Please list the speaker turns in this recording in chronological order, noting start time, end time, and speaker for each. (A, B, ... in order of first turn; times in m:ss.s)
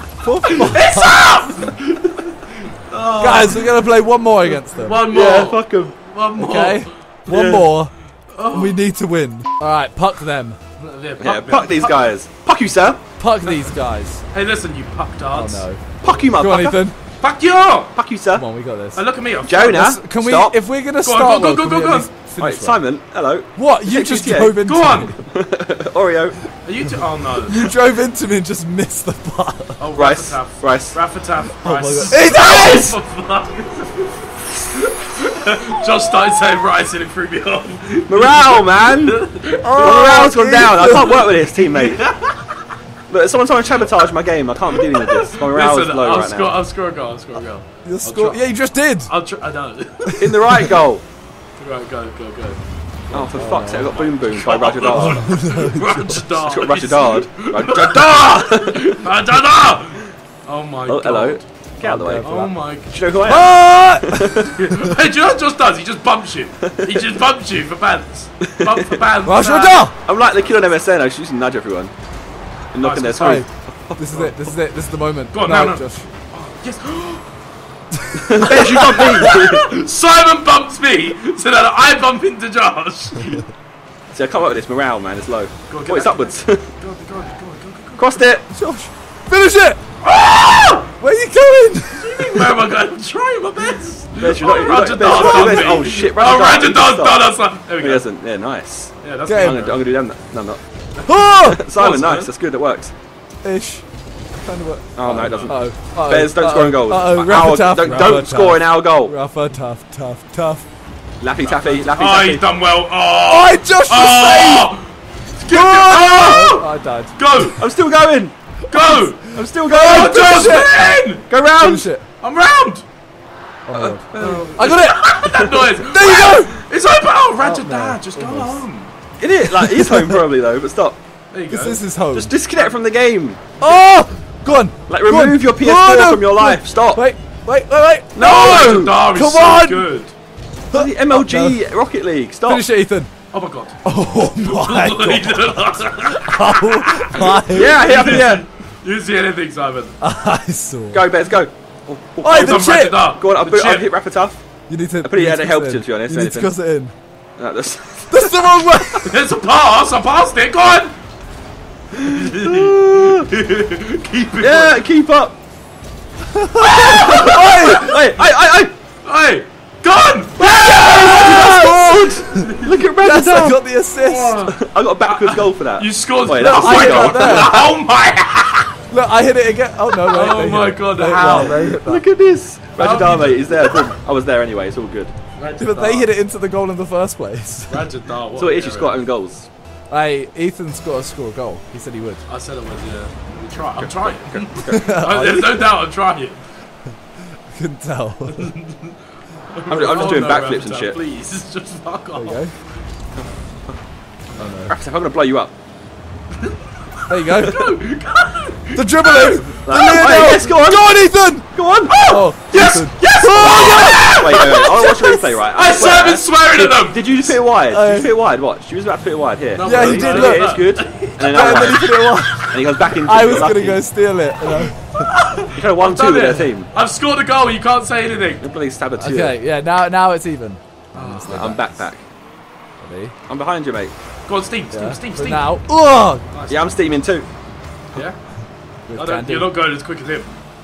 0:00.2-0:01.4 A
0:00.5-0:03.7 B
0:03.2-0:05.0 A
0:04.5-0:06.9 B
0:05.1-0:06.0 C
0:06.4-0:07.9 A
0:07.3-0:07.7 C
0:08.3-0:08.8 B
0:08.5-0:10.6 A
0:10.8-0:12.2 B
0:11.2-0:13.0 C
0:13.2-0:14.2 A
0:13.4-0:13.7 B
0:14.3-0:15.7 B
0:15.3-0:17.0 A
0:16.0-0:16.8 C
0:17.2-0:17.9 B
0:17.9-0:18.4 C
0:18.3-0:19.0 A
0:18.9-0:20.0 B
0:19.4-0:20.6 C
0:19.7-0:22.8 A
0:21.0-0:22.1 B
0:22.4-0:24.6 C
0:23.6-0:25.2 A
0:24.6-0:25.1 B
0:25.3-0:26.4 C
0:26.6-0:27.6 B
0:27.5-0:29.8 A
0:29.8-0:40.2 B
0:30.0-0:31.0 C
0:31.6-0:33.0 A
0:38.1-0:39.2 C
0:39.6-0:41.3 A
0:39.8-0:42.0 C
0:41.6-0:42.6 B
0:43.1-0:46.6 C
0:44.7-0:50.1 B
0:47.8-0:49.1 A
0:50.0-0:50.6 A
0:50.2-0:51.0 C
0:51.6-1:01.5 B
0:53.1-0:55.3 C
0:53.3-0:54.0 A
0:54.9-0:56.2 A
0:56.4-0:59.0 C
1:00.9-1:02.3 C
1:01.8-1:02.5 A
1:02.1-1:02.9 B
1:02.9-1:04.4 C
1:03.2-1:04.9 A
1:04.4-1:10.5 B
1:09.2-1:09.9 A
1:10.0-1:11.9 C
1:12.7-1:14.0 C
1:12.8-1:13.4 B
1:13.2-1:16.1 A
1:15.3-1:17.3 B
1:18.2-1:19.6 C
1:18.3-1:19.0 A
1:18.4-1:23.4 B
1:24.1-1:26.7 C
1:25.7-1:28.3 B
1:28.0-1:28.4 C
1:28.5-1:29.8 A
1:30.0-1:30.9 B
1:31.0-1:32.5 A
1:32.0-1:38.0 B
1:34.2-1:40.6 C
1:35.1-1:35.9 A
1:39.0-1:39.8 B
1:39.2-1:39.6 A
1:41.0-1:41.6 A
1:41.4-1:42.9 C
1:41.7-1:42.3 B
1:43.4-1:43.8 A
1:44.4-1:50.6 A
1:45.0-1:49.1 C
1:45.1-1:45.5 B
1:47.8-1:48.2 B
1:51.2-1:52.4 C
1:51.4-1:57.6 B
1:53.3-1:54.7 A
1:55.5-1:57.2 A
1:57.6-1:58.3 C
1:58.7-2:01.3 B
1:58.7-2:02.0 A
1:59.3-2:00.7 C
2:01.3-2:01.9 C
2:02.2-2:02.8 B
2:03.7-2:05.1 A
2:03.7-2:05.7 C
2:04.2-2:08.9 B
2:05.8-2:06.5 A
2:07.4-2:08.6 A
2:09.2-2:11.0 C
2:09.5-2:10.3 A
2:11.3-2:11.8 B
2:11.5-2:12.3 A
2:12.1-2:13.4 C
2:13.6-2:18.2 A
2:14.9-2:17.0 C
2:18.1-2:19.0 C
2:18.2-2:20.1 B
2:19.1-2:19.9 A
2:20.7-2:21.6 A
2:20.7-2:22.6 C
2:22.4-2:23.1 A
2:23.3-2:23.8 B
2:23.8-2:27.8 A
2:24.4-2:30.0 B
2:27.5-2:28.4 C
2:30.0-2:31.0 A
2:30.9-2:34.4 C
2:32.2-2:33.0 A
2:32.3-2:33.9 B
2:34.7-2:36.9 A
2:35.0-2:36.5 C
2:37.4-2:38.7 C
2:38.1-2:39.1 A
2:39.0-2:40.9 B
2:41.9-2:43.3 C
2:42.0-2:44.8 B
2:44.4-2:45.3 C
2:46.3-2:47.8 A
2:46.6-2:48.0 B
2:46.9-2:48.7 C
2:49.0-2:52.8 B
2:50.4-2:53.6 C
2:50.8-2:54.4 A
2:54.0-2:58.8 B
2:54.5-2:57.6 C
2:56.3-2:57.7 A
2:58.9-3:02.0 A
3:00.0-3:01.7 B
3:01.2-3:05.1 C
3:02.8-3:03.9 B
3:05.4-3:06.1 B
3:05.6-3:07.9 A
3:07.7-3:09.1 B
3:08.3-3:09.5 C
3:09.9-3:12.2 A
3:12.3-3:16.4 B
3:13.8-3:14.9 C
3:14.6-3:15.7 A
3:17.5-3:18.5 A
3:18.3-3:19.0 B
3:19.5-3:22.5 B
3:19.7-3:21.0 C
3:22.1-3:22.5 A
3:23.2-3:23.8 C
3:24.4-3:24.7 A
3:24.7-3:25.5 C
3:27.1-3:30.0 B
3:27.1-3:27.7 A
3:28.7-3:31.5 A
3:29.6-3:32.0 C
3:31.9-3:37.3 B
3:32.1-3:35.4 A
3:33.4-3:43.8 C
3:37.7-3:38.1 A
3:39.5-3:41.9 B
3:39.6-3:45.0 A
3:43.3-3:43.5 B
3:44.6-3:48.4 B
3:45.5-3:46.7 C
3:48.4-3:49.4 C
3:49.0-3:51.9 A
3:50.9-3:51.7 B
3:51.3-3:52.0 C
3:52.8-3:53.1 A
3:53.3-3:53.9 C
3:54.3-3:55.6 B
3:54.7-3:56.2 A
3:56.3-3:56.8 B
3:56.5-3:57.3 C
3:58.9-3:59.5 A
3:58.9-4:00.3 B